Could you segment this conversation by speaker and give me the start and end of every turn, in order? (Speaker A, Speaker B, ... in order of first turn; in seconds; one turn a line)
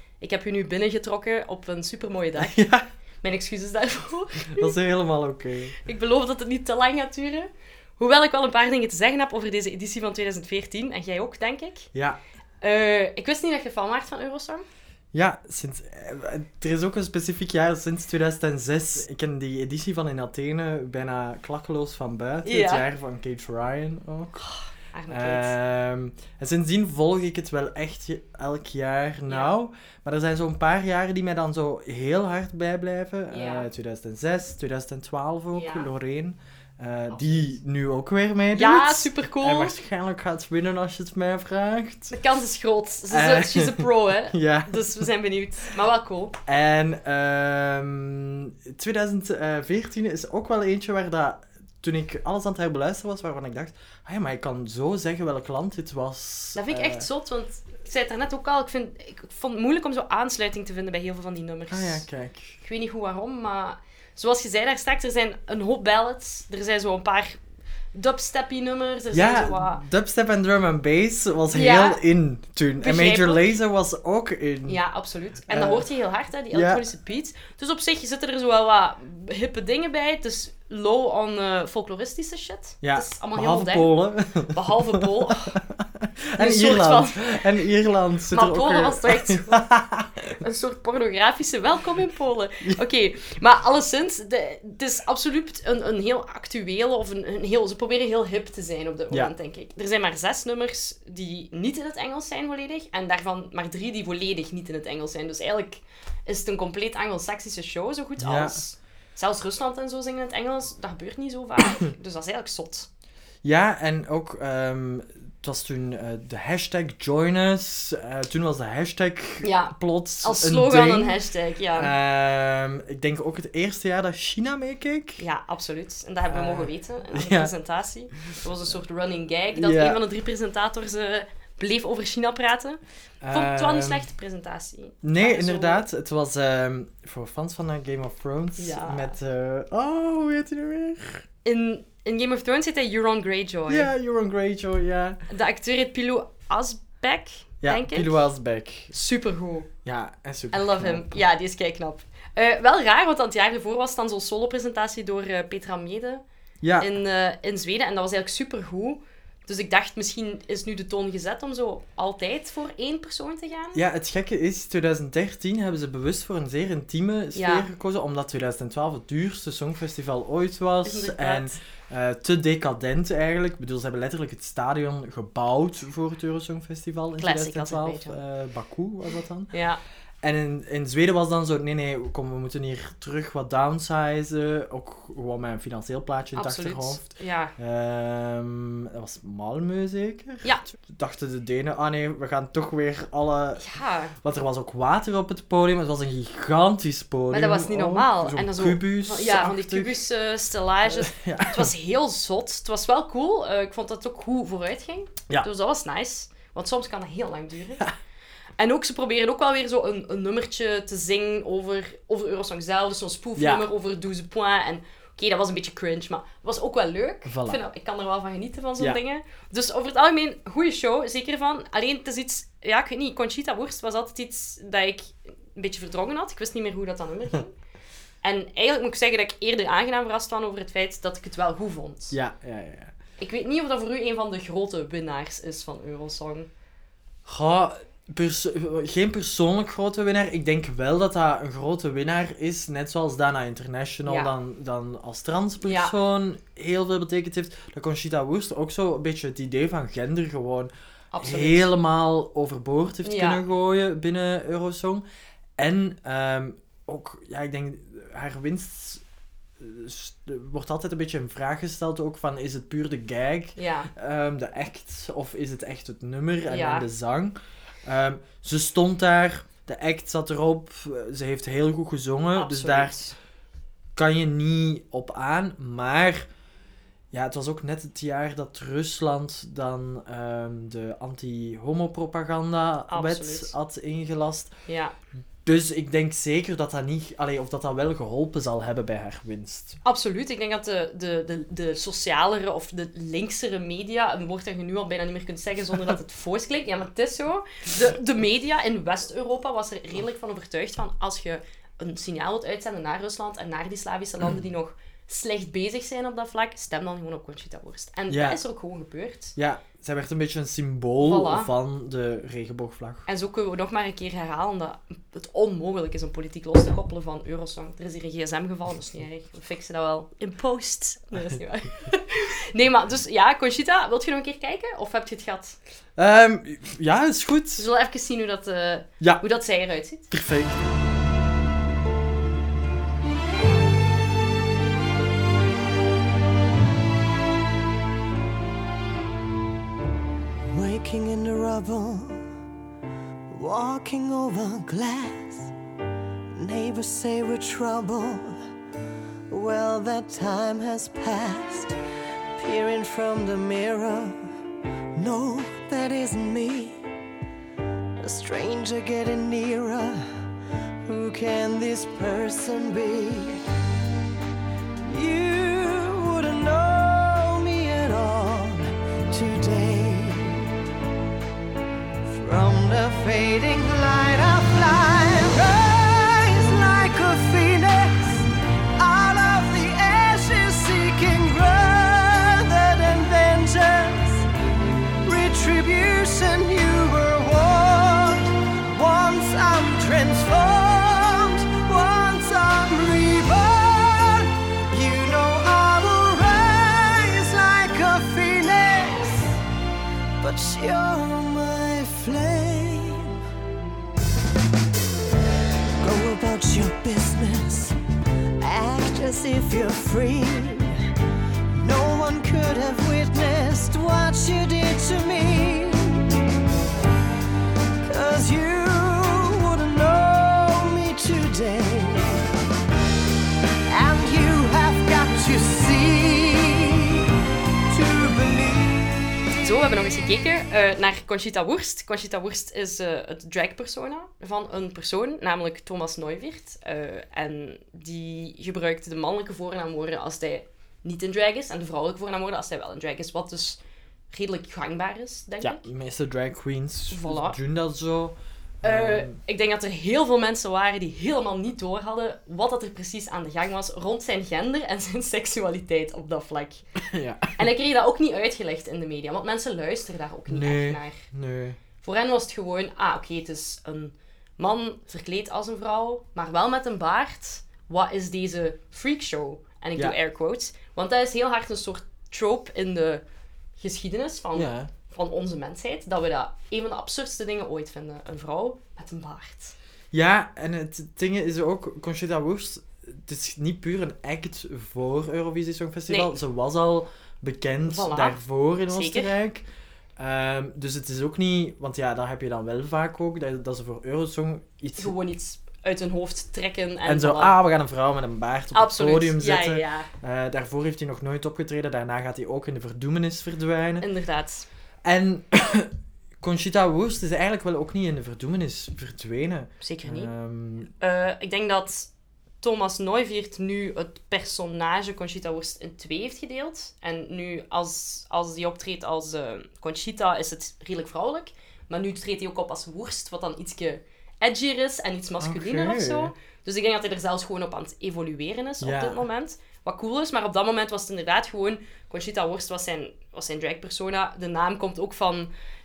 Speaker A: 0.2-2.5
Speaker B: 2.4-2.8
Speaker A: 3.2-4.7
Speaker B: 4.5-5.8
Speaker A: 5.8-11.9
Speaker B: 11.9-12.2
Speaker A: 12.6-14.6
Speaker B: 15.1-24.4
Speaker A: 22.4-22.8
Speaker A: 24.4-25.5
Speaker B: 25.1-42.1
Speaker A: 33.3-33.7
Speaker A: 35.5-35.9
Speaker A: 38.5-39.8
Speaker A: 42.1-46.4
Speaker B: 43.1-45.1
Speaker B: 46.5-57.0
Speaker A: 56.5-62.0
Speaker B: 61.7-62.6
Speaker A: 62.6-67.4
Speaker A: 67.9-69.8
Speaker B: 69.1-74.8
Speaker A: 71.5-72.0
Speaker A: 72.8-73.5
Speaker A: 74.7-83.9
Speaker B: 75.5-75.9
Speaker B: 76.5-76.8
Speaker B: 82.8-90.3
Speaker A: 84.5-85.6
Speaker A: 86.3-87.4
Speaker A: 88.3-89.7
Speaker A: 90.4-112.9
Speaker B: 108.2-108.6
Speaker B: 113.4-121.2
Speaker A: 119.4-121.9
Speaker B: 121.7-125.2
Speaker A: 125.2-132.8
Speaker B: 126.3-127.5
Speaker B: 129.5-130.0
Speaker B: 133.2-134.1
Speaker A: 133.3-135.8
Speaker B: 135.0-141.2
Speaker A: 138.6-139.2
Speaker A: 141.4-143.9
Speaker B: 143.7-145.2
Speaker A: 145.3-148.2
Speaker B: 147.6-148.9
Speaker A: 148.9-149.7
Speaker B: 149.8-151.2
Speaker A: 150.5-156.2
Speaker B: 156.6-156.9
Speaker A: 156.8-163.8
Speaker B: 163.7-179.5
Speaker A: 167.3-167.7
Speaker A: 170.8-171.5
Speaker A: 177.2-178.2
Speaker A: 179.5-179.8
Speaker B: 180.2-193.6
Speaker A: 186.3-187.5
Speaker A: 193.6-194.1
Speaker B: 194.2-200.0
Speaker A: 197.3-207.8
Speaker B: 200.9-201.7
Speaker A: 208.6-227.5
Speaker B: 213.4-213.7
Speaker B: 217.2-217.6
Speaker A: 228.2-232.1
Speaker B: 232.1-232.9
Speaker A: 233.2-236.5
Speaker B: 237.2-255.0
Speaker A: 244.1-244.3
Speaker A: 245.6-245.9
Speaker A: 251.1-251.7
Speaker A: 253.0-253.4
Speaker B: 255.6-259.0
Speaker B: 259.6-272.9
Speaker A: 263.6-263.9
Speaker A: 266.5-266.9
Speaker A: 272.3-273.1
Speaker B: 273.9-276.3
Speaker B: 277.1-284.5
Speaker A: 282.9-283.5
Speaker A: 284.7-284.9
Speaker B: 285.4-289.8
Speaker A: 289.8-309.4
Speaker B: 308.1-308.4
Speaker B: 309.4-313.1
Speaker A: 311.0-311.5
Speaker A: 313.1-325.6
Speaker B: 326.0-327.7
Speaker A: 327.6-330.1
Speaker B: 330.1-330.6
Speaker C: 340.5-342.2
Speaker C: 343.3-345.5
Speaker C: 346.3-348.4
Speaker C: 349.3-351.7
Speaker C: 352.4-354.3
Speaker C: 354.9-356.8
Speaker C: 358.0-360.1
Speaker C: 360.8-363.4
Speaker C: 364.9-370.5
Speaker C: 372.1-384.3
Speaker C: 385.0-399.4
Speaker C: 400.2-403.1
Speaker C: 405.8-407.8
Speaker C: 408.4-410.8
Speaker C: 411.5-416.1
Speaker C: 417.8-422.2
Speaker C: 423.7-427.1
Speaker C: 427.7-428.9
Speaker A: 429.4-443.6
Speaker A: 444.1-445.6
Speaker B: 445.4-449.2
Speaker A: 446.9-447.4
Speaker A: 448.6-456.6
Speaker B: 456.8-457.4
Speaker A: 457.4-461.0
Speaker B: 460.3-461.6
Speaker A: 461.8-473.0
Speaker A: 473.6-479.6
Speaker B: 474.3-474.7
Speaker B: 479.9-489.4
Speaker A: 485.9-486.1
Speaker A: 487.7-489.1
Speaker B: 490.0-494.9
Speaker A: 494.8-497.3
Speaker B: 496.8-503.9
Speaker A: 498.5-499.9
Speaker A: 503.8-504.4
Speaker B: 504.8-510.7
Speaker A: 509.6-510.1
Speaker A: 510.8-511.9
Speaker A: 512.4-535.3
Speaker B: 525.2-526.1
Speaker B: 528.6-529.0